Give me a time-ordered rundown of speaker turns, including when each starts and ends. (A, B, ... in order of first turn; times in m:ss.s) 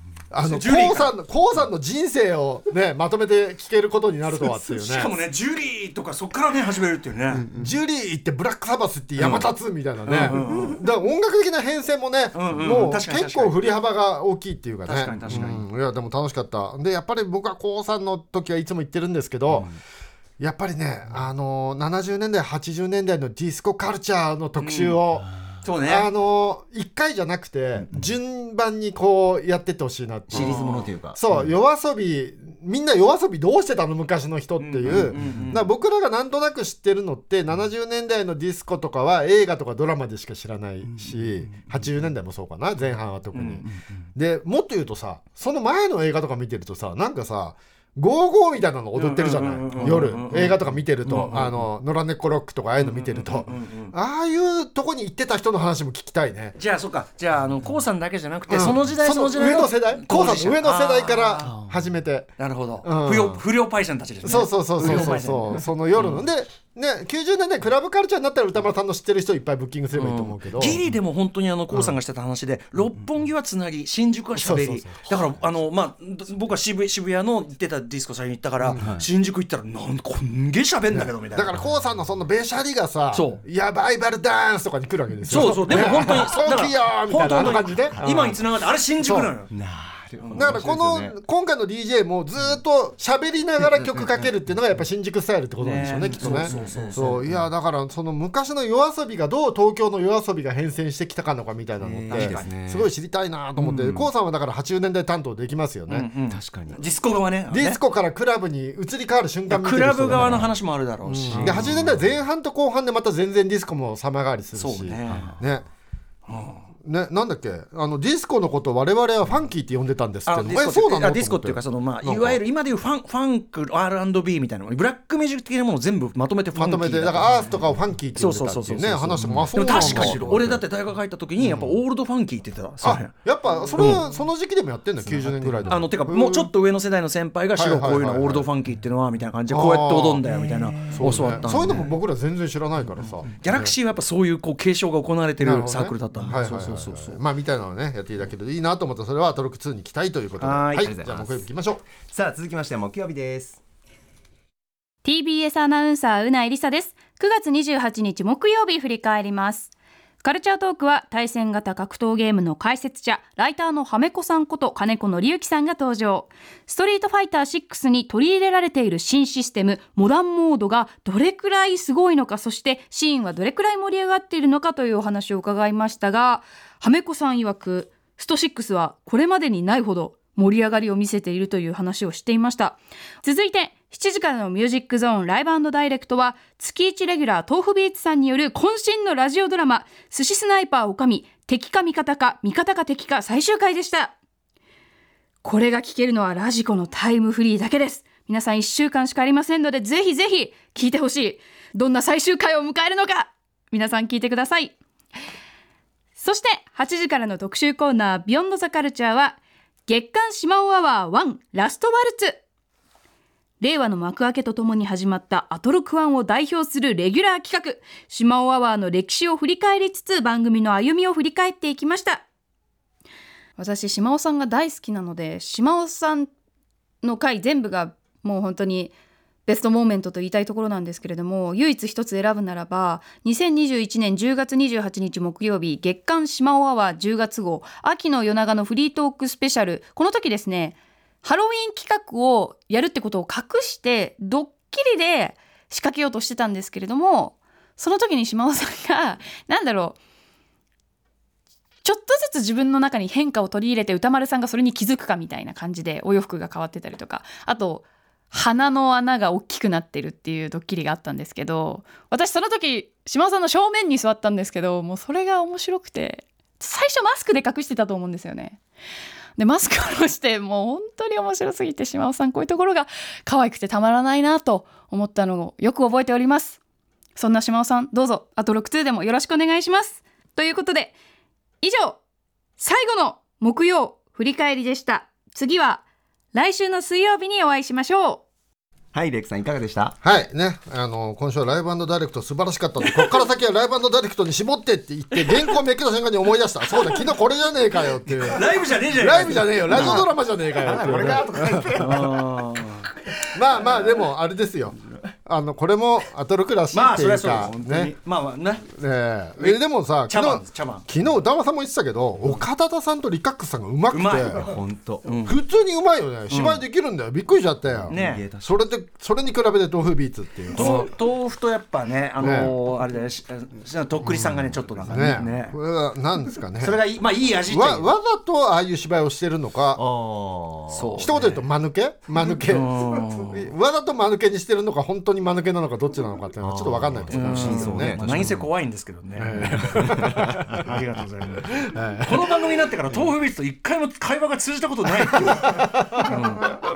0:00.3-0:05.1 A
0:00.4-0:01.1 B
0:04.4-0:07.5 B
0:07.5-0:19.7 A
0:09.2-0:09.5 B
0:10.0-0:10.8 B
0:12.3-0:13.6 B
0:14.8-0:15.6 B
0:15.2-0:15.5 C
0:20.4-0:25.3 A
0:24.6-0:25.0 B
0:25.6-0:26.1 B
0:25.8-0:56.6 A
0:30.3-0:31.5 C
0:30.3-0:30.9 B
0:34.6-0:35.6 B
0:34.8-0:35.5 C
0:40.9-0:41.8 C
0:43.3-0:43.6 B
0:49.0-0:50.5 B
0:49.8-0:51.5 C
0:51.1-0:51.5 B
0:52.8-0:53.9 B
0:56.6-1:01.6 B
0:58.5-1:03.4 A
1:01.5-1:01.9 C
1:02.4-1:05.6 B
1:04.2-1:10.8 A
1:09.9-1:21.5 B
1:14.4-1:15.2 A
1:18.6-1:18.9 A
1:18.8-1:19.0 C
1:20.9-1:28.3 A
1:23.1-1:23.4 B
1:25.3-1:29.5 B
1:25.3-1:26.1 C
1:27.9-1:28.4 C
1:29.0-1:29.3 A
1:29.5-1:31.1 C
1:30.2-1:30.6 B
1:30.3-1:46.1 A
1:33.7-1:34.3 C
1:35.6-1:37.1 B
1:36.2-1:37.5 C
1:41.8-1:42.9 C
1:42.1-1:42.4 B
1:43.6-1:44.1 C
1:45.9-1:47.8 B
1:46.3-1:46.8 C
1:47.5-1:55.7 A
1:49.5-1:51.7 B
1:50.1-1:50.5 C
1:51.3-1:52.1 C
1:54.6-1:55.3 B
1:55.1-1:55.4 C
1:56.3-1:56.6 B
1:56.8-2:02.4 A
2:00.3-2:07.4 B
2:06.5-2:10.4 A
2:07.3-2:07.6 C
2:08.1-2:13.1 B
2:09.2-2:10.6 C
2:11.4-2:11.7 A
2:12.8-2:16.5 A
2:13.8-2:14.0 B
2:15.0-2:15.8 C
2:15.6-2:21.9 B
2:17.5-2:18.5 A
2:19.5-2:20.2 A
2:20.3-2:21.8 C
2:20.9-2:23.7 A
2:23.3-2:27.2 B
2:25.4-2:31.8 A
2:30.4-2:30.9 B
2:30.8-2:31.4 C
2:32.0-2:33.6 C
2:35.0-2:39.7 D
2:40.2-3:14.1 D
3:15.4-3:24.8 D
3:26.2-3:32.4 D
3:33.6-3:42.2 D
3:43.6-3:46.3 D
3:47.0-3:48.9 D
3:49.4-4:10.0 D
4:11.8-4:28.6 D
4:29.4-4:36.6 D
4:37.2-4:41.0 D
4:41.6-4:42.0 D
4:42.6-4:45.8 D
4:46.3-4:48.2 D
4:48.9-4:50.0 C
4:50.0-5:01.8 A
4:58.2-5:00.0 B
4:59.7-5:02.3 C
5:01.8-5:02.9 B
5:03.3-5:07.9 A
5:06.7-5:08.7 B
5:08.7-5:14.4 A
5:09.4-5:10.8 B
5:13.9-5:15.4 B
5:14.4-5:15.1 C
5:15.2-5:20.9 A
5:16.3-5:16.6 B
5:17.8-5:18.5 C
5:17.9-5:18.2 B
5:20.5-5:25.5 B
5:22.2-5:22.5 A
5:24.8-5:26.8 A
5:26.6-5:27.9 B
5:27.5-5:29.8 A
5:29.7-5:31.2 C
5:30.7-5:31.2 B
5:31.0-5:38.3 A
5:32.4-5:33.5 B
5:36.4-5:38.5 C
5:37.1-5:46.6 B
5:39.2-5:40.7 A
5:39.3-5:40.7 C
5:41.5-5:42.3 A
5:45.5-5:46.1 A